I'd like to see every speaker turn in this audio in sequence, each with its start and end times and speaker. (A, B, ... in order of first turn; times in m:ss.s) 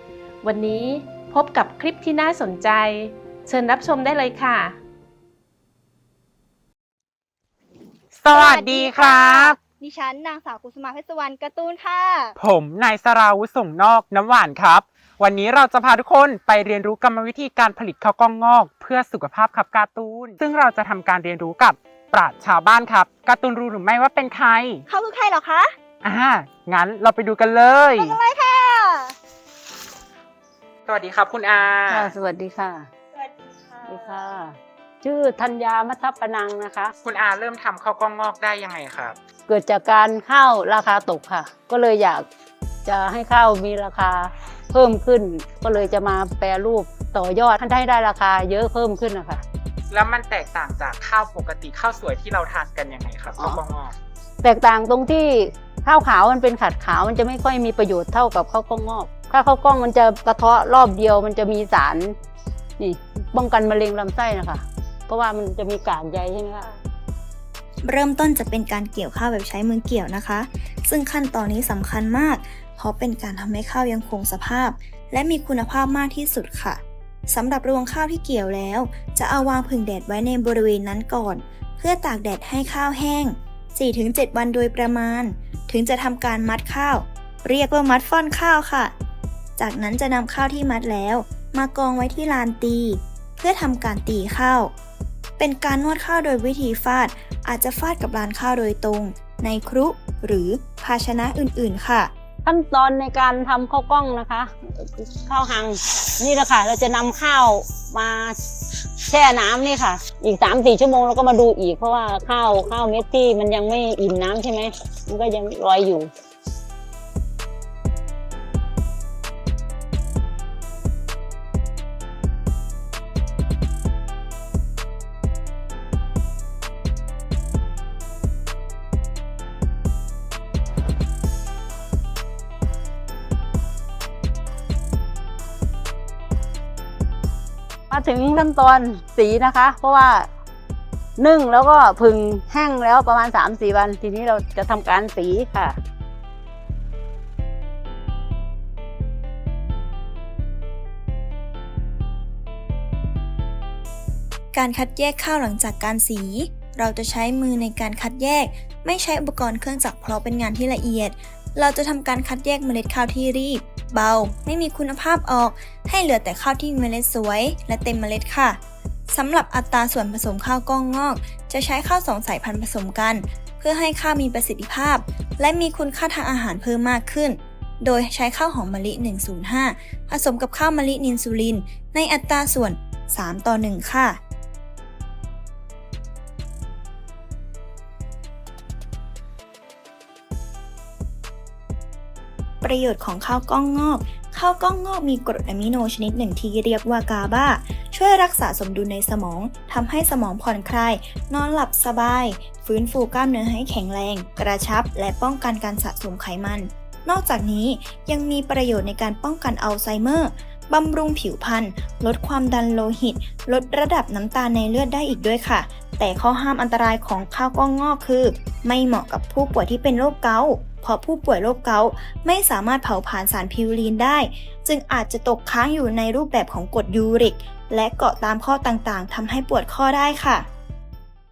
0:00.4-0:04.8 A
0:08.1-0:09.6 B
0:08.3-0:12.4 C
0:12.4-0:24.8 B
0:24.9-0:25.7 C
0:26.0-0:28.2 B
0:28.0-0:29.1 C
0:30.9-0:32.1 B
0:31.9-0:32.9 D
0:33.8-0:36.9 D
0:37.0-0:39.2 B
0:39.5-0:42.3 D
0:42.8-0:49.4 D
0:49.9-0:54.0 B
0:54.4-1:02.2 D
1:02.8-1:06.8 D
1:07.8-1:29.0 E
1:29.6-1:34.8 E
1:35.4-1:42.1 E
1:42.4-1:48.4 D
1:49.1-1:56.1 D
2:17.9-2:20.3 D
2:21.2-2:25.8 D
2:34.5-3:04.2 E
3:12.6-3:50.5 E